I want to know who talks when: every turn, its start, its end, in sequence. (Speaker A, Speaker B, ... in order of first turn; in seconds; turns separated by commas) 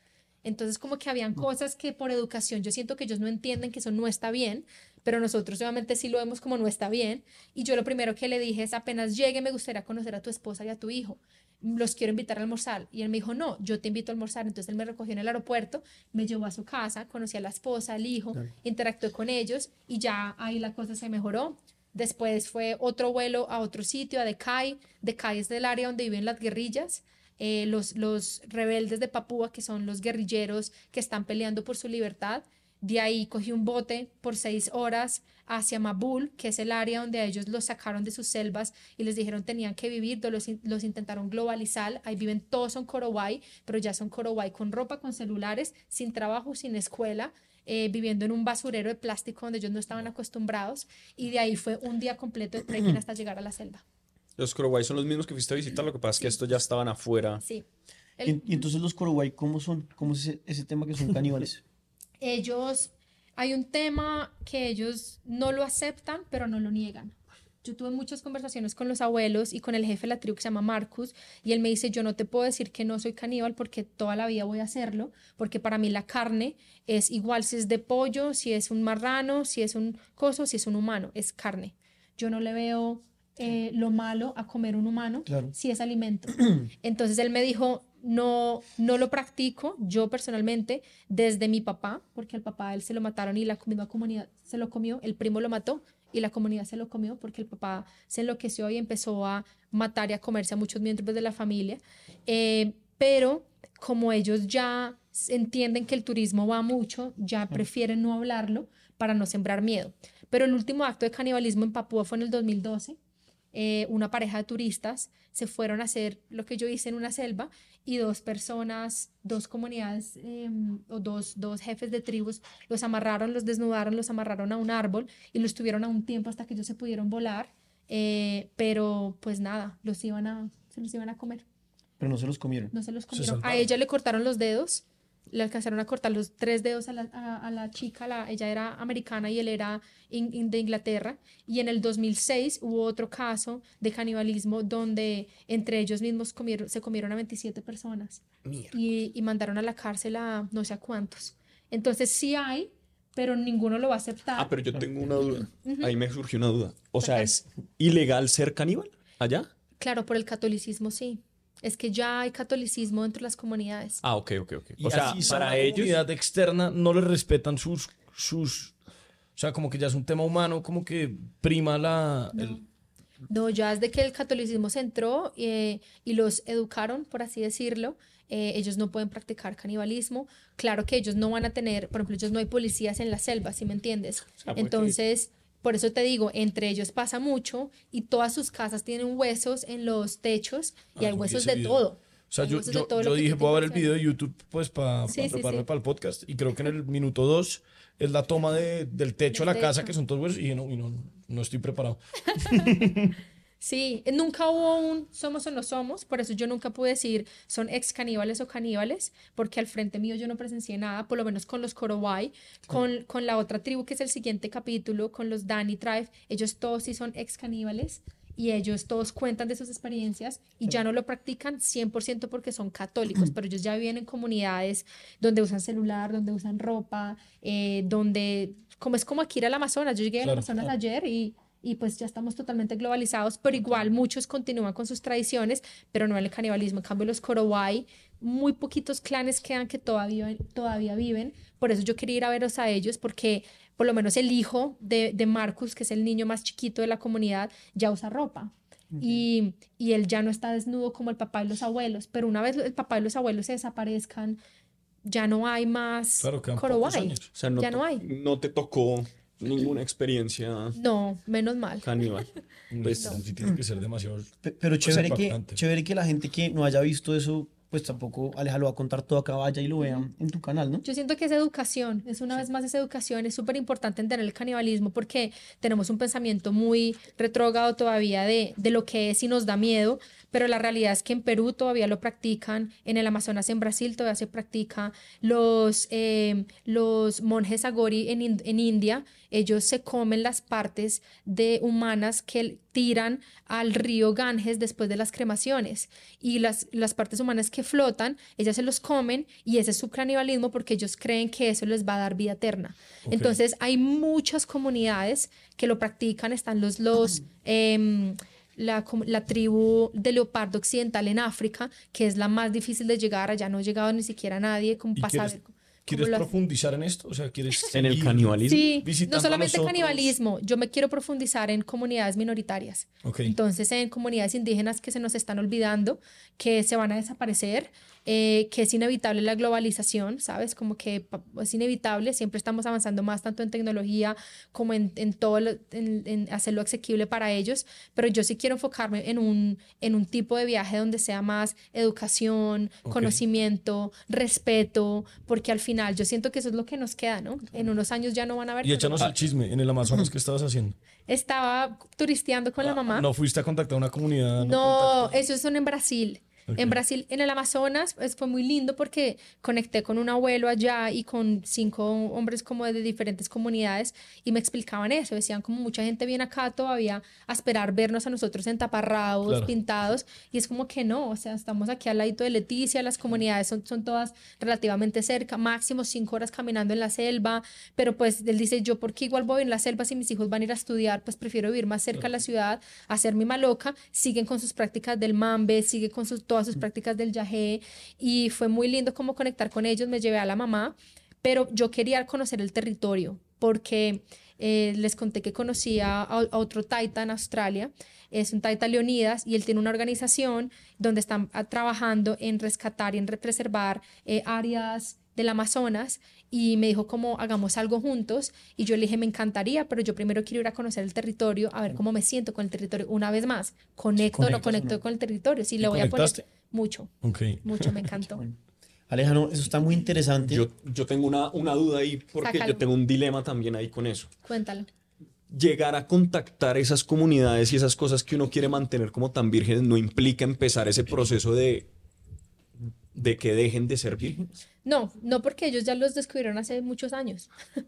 Speaker A: 0.4-53.8, Speaker B: 54.4-57.4, Speaker A: 58.2-58.7, Speaker C: 58.2-61.6, Speaker A: 62.2-113.0, Speaker C: 85.3-85.5, Speaker A: 113.5-131.4, Speaker C: 132.0-132.7, Speaker A: 132.7-154.5, Speaker D: 133.1-133.7, Speaker B: 148.4-148.7, Speaker B: 154.3-159.5, Speaker A: 155.6-155.9, Speaker A: 157.0-157.3, Speaker A: 159.8-164.0, Speaker B: 164.0-166.0, Speaker D: 164.8-168.7, Speaker A: 165.2-165.4, Speaker D: 169.4-172.6, Speaker A: 172.3-172.6, Speaker A: 173.3-194.0, Speaker B: 184.4-185.0, Speaker D: 191.0-203.1, Speaker A: 195.1-195.6, Speaker A: 199.3-199.9, Speaker A: 202.3-202.8, Speaker A: 203.6-254.4, Speaker C: 248.9-249.2, Speaker A: 255.0-258.0, Speaker D: 256.2-257.3, Speaker B: 257.3-260.8, Speaker A: 260.7-261.9, Speaker B: 261.8-262.3, Speaker D: 262.7-264.3, Speaker B: 262.8-263.2, Speaker C: 264.4-270.8, Speaker D: 264.8-265.6, Speaker A: 270.8-316.3, Speaker D: 303.1-303.4, Speaker D: 314.9-320.1, Speaker B: 317.7-318.7, Speaker A: 318.5-349.1, Speaker D: 323.0-323.3, Speaker D: 342.9-343.2, Speaker D: 348.6-350.7, Speaker C: 349.8-350.1, Speaker A: 351.1-353.1, Speaker D: 352.6-355.2, Speaker A: 354.4-416.9, Speaker D: 356.5-356.8, Speaker D: 369.2-369.5, Speaker D: 414.1-414.4, Speaker C: 414.1-414.8, Speaker D: 415.6-416.2, Speaker D: 417.0-417.9, Speaker A: 417.4-418.2, Speaker C: 418.1-418.4, Speaker C: 418.9-420.4, Speaker B: 420.2-424.1, Speaker A: 422.2-422.6, Speaker A: 424.2-424.7, Speaker B: 425.3-431.7, Speaker B: 432.9-434.3, Speaker A: 434.6-437.3